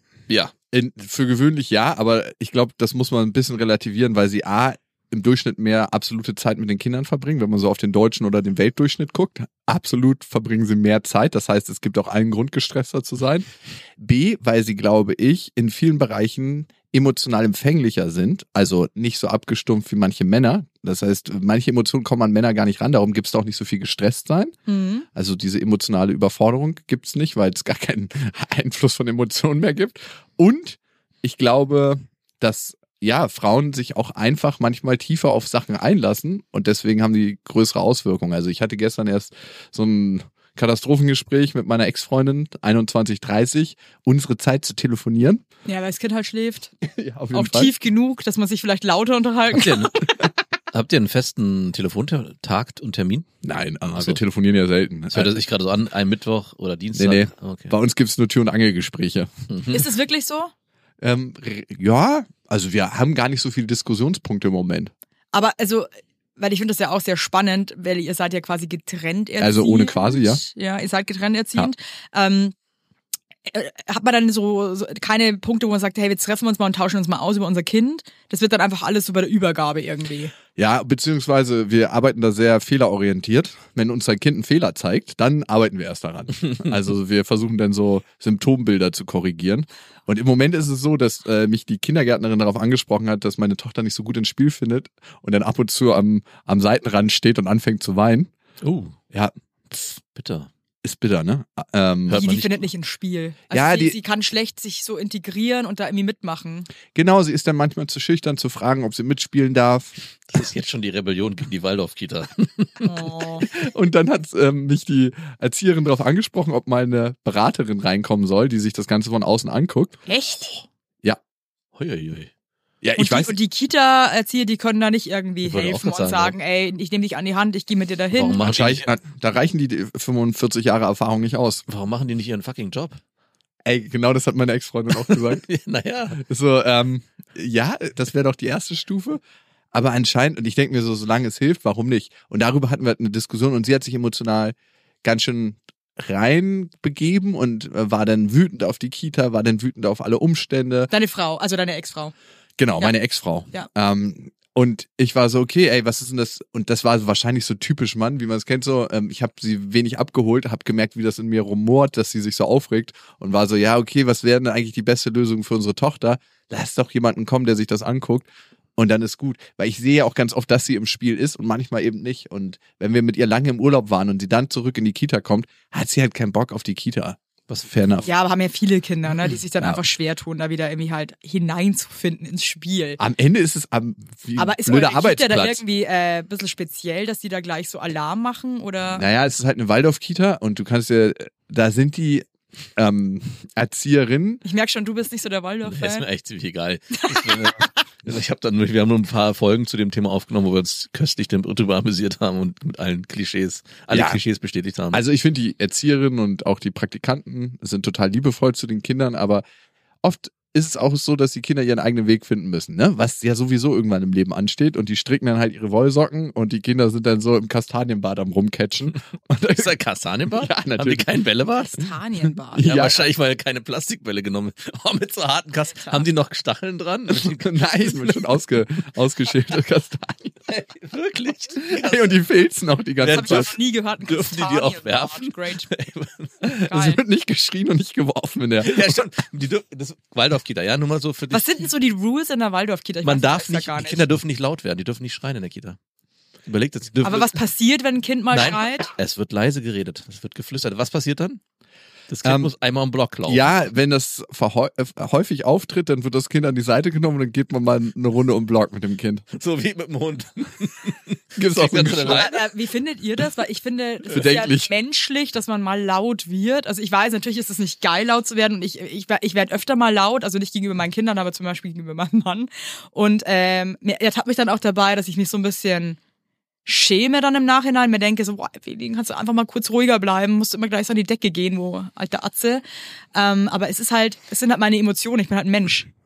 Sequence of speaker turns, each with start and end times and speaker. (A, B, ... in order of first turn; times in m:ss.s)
0:00.5-0:13.5 A
0:14.0-0:24.6 A
0:24.7-0:25.1 B
0:25.1-0:45.4 A
0:45.6-0:46.7 B
0:46.8-0:47.7 A
0:47.3-0:50.1 B
0:49.5-0:50.0 C
0:50.7-0:53.3 C
0:53.4-0:55.4 A
0:53.9-0:54.2 C
0:55.1-0:57.7 C
0:57.0-0:59.3 A
0:59.5-0:59.8 C
0:59.7-1:00.5 B
1:01.0-1:04.9 A
1:05.3-1:12.5 B
1:09.4-1:10.4 A
1:13.5-1:20.3 B
1:20.6-1:38.3 A
1:38.6-1:39.0 C
1:39.1-1:39.9 A
1:40.1-1:40.5 C
1:40.8-1:42.3 A
1:42.1-1:42.5 C
1:42.1-1:46.7 B
1:43.5-1:44.0 A
1:46.9-1:49.9 A
1:50.3-1:53.0 C
1:52.8-1:53.4 B
1:53.5-2:00.0 A
2:00.1-2:00.5 B
2:01.8-2:02.3 C
2:02.8-2:03.3 A
2:03.0-2:08.4 B
2:05.4-2:06.3 C
2:08.1-2:08.8 C
2:08.4-2:11.6 A
2:11.7-2:13.0 C
2:13.6-2:15.4 A
2:14.9-2:16.2 C
2:16.1-2:19.2 A
2:19.7-2:30.9 A
2:30.9-2:32.1 B
2:32.6-2:58.1 A
2:58.0-3:03.0 B
3:03.0-3:05.6 A
3:04.4-3:09.0 B
3:08.9-3:14.4 A
3:14.4-3:16.0 B
3:15.6-3:25.0 C
3:16.9-3:17.7 B
3:23.9-3:24.2 A
3:24.9-3:29.4 A
3:30.0-3:39.8 A
3:39.5-3:41.9 C
3:40.3-3:41.1 A
3:41.6-3:42.8 B
3:42.5-3:43.1 A
3:42.6-3:48.0 C
3:45.7-3:46.1 B
3:47.2-3:50.4 A
3:50.5-3:52.2 C
3:51.7-3:53.5 A
3:53.0-3:56.5 C
3:53.1-3:55.7 B
3:56.4-3:58.9 A
3:56.7-3:57.0 B
3:58.6-4:01.6 C
4:01.3-4:04.0 B
4:03.0-4:05.8 C
4:06.4-4:07.4 C
4:07.0-4:08.9 B
4:08.3-4:11.4 C
4:12.1-4:13.4 C
4:12.2-4:12.5 A
4:13.3-4:19.2 A
4:19.3-4:22.4 C
4:21.4-4:22.3 A
4:22.1-4:36.0 B
4:24.1-4:24.7 A
4:36.6-4:42.6 B
4:43.1-4:45.9 B